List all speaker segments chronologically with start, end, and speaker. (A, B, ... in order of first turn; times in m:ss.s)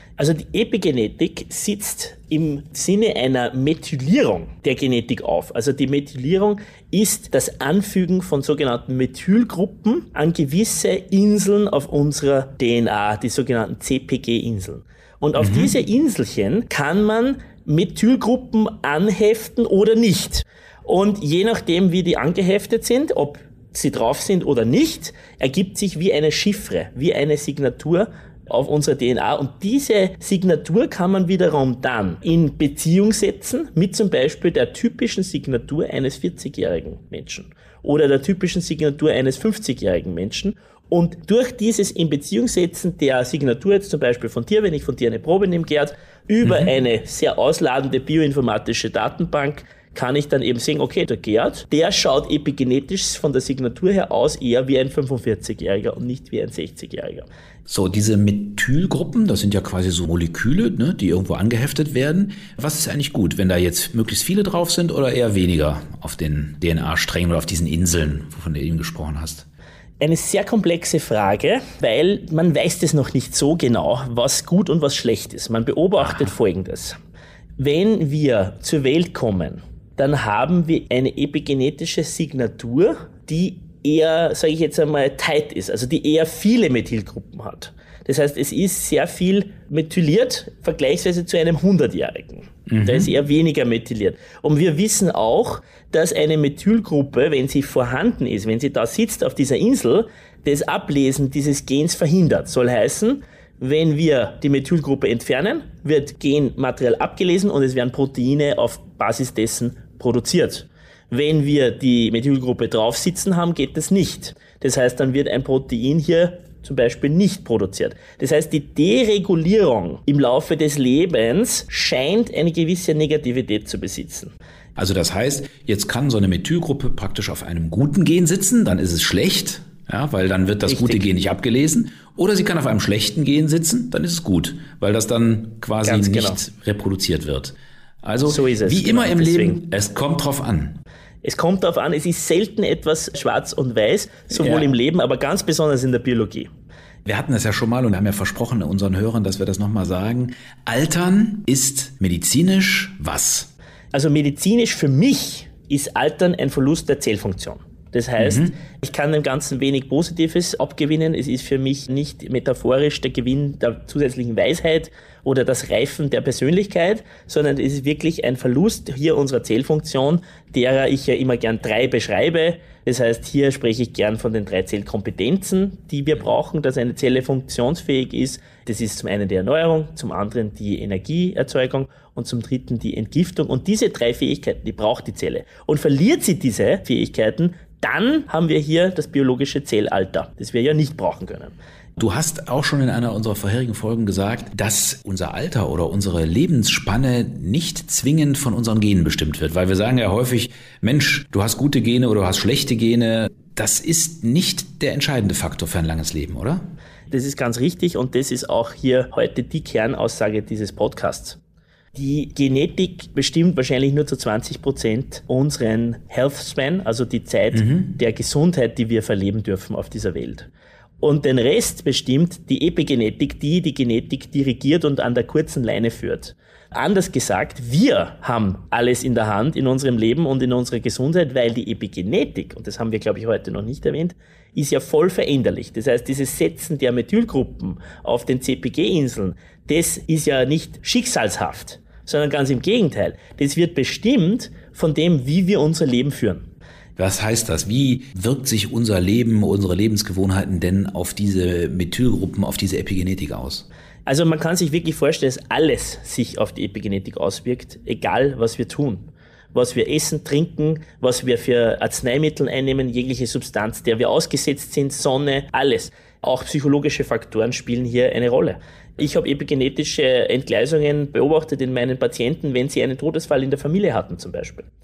0:00.2-0:57.2 A
0:15.4-0:15.7 B
0:46.4-0:46.7 B
0:57.7-1:09.4 B
1:10.0-1:17.0 A
1:17.6-2:04.3 A
1:32.7-1:33.1 B
2:04.8-2:20.8 B
2:10.6-2:11.0 A
2:15.8-2:16.4 A
2:18.2-2:19.6 A
2:21.2-2:26.5 A
2:24.4-2:24.7 B
2:27.0-2:33.5 B
2:33.9-3:11.5 A
2:38.2-2:38.6 B
3:12.0-3:26.6 B
3:27.1-3:31.4 A
3:31.9-3:40.5 A
3:37.5-3:37.9 B
3:41.0-4:06.4 A
4:07.0-4:13.6 B
4:14.0-4:34.7 A